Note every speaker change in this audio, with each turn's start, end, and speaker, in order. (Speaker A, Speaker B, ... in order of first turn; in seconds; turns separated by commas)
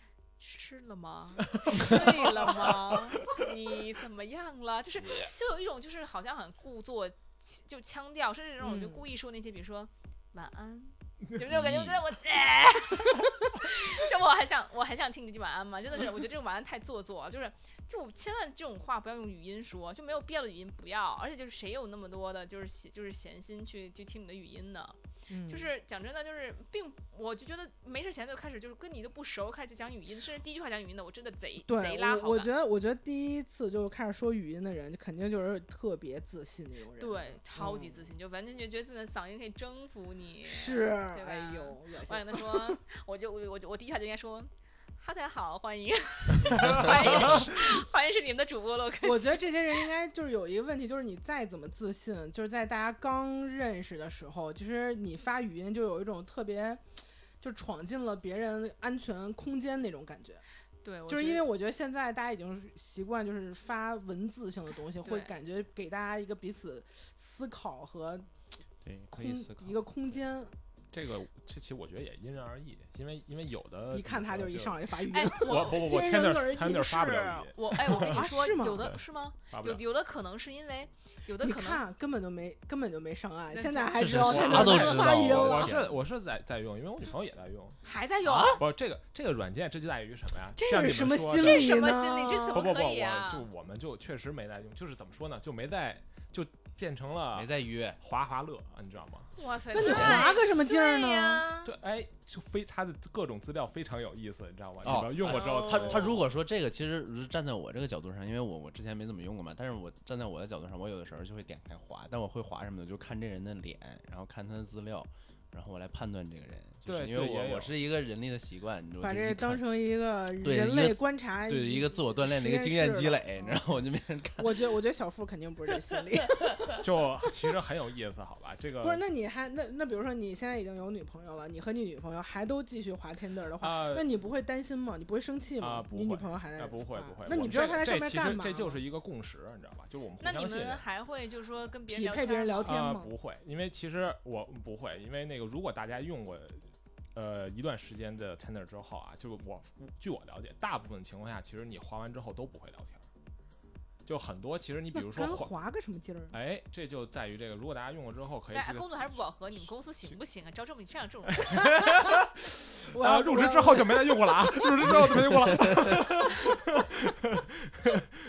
Speaker A: 0.4-32.5, Speaker B: 8.6-9.0, Speaker C: 11.5-12.0, Speaker B: 25.3-25.7, Speaker B: 31.6-38.1, Speaker A: 37.0-49.9, Speaker B: 40.5-42.8, Speaker D: 46.5-47.4, Speaker B: 49.0-56.8, Speaker B: 57.4-60.4, Speaker A: 60.8-61.5, Speaker B: 61.1-68.3, Speaker A: 65.0-65.3, Speaker C: 68.8-69.7, Speaker B: 69.1-70.5, Speaker D: 70.9-79.8, Speaker B: 73.9-78.9, Speaker A: 75.1-75.9, Speaker A: 77.1-81.8, Speaker B: 81.4-85.8, Speaker A: 83.5-84.0, Speaker C: 84.0-86.0, Speaker D: 84.2-87.8, Speaker A: 87.8-88.6, Speaker C: 88.2-88.6, Speaker D: 88.6-91.8, Speaker B: 90.6-92.7, Speaker A: 91.4-93.5, Speaker D: 92.5-99.3, Speaker C: 97.3-98.0, Speaker A: 99.4-101.7, Speaker B: 99.7-101.5, Speaker C: 99.8-100.4, Speaker D: 101.6-106.2, Speaker C: 104.8-119.6, Speaker A: 105.2-106.2, Speaker D: 116.9-117.8, Speaker B: 119.0-123.6, Speaker C: 120.4-124.6, Speaker B: 124.4-126.7, Speaker D: 126.8-129.0, Speaker B: 128.8-138.8, Speaker D: 133.6-134.1, Speaker D: 135.6-140.8, Speaker A: 140.2-142.8, Speaker B: 141.9-143.1, Speaker D: 142.6-153.1, Speaker D: 154.1-155.5, Speaker B: 154.9-156.4, Speaker D: 156.3-160.2, Speaker A: 158.5-161.7, Speaker D: 161.4-168.2, Speaker B: 162.9-165.2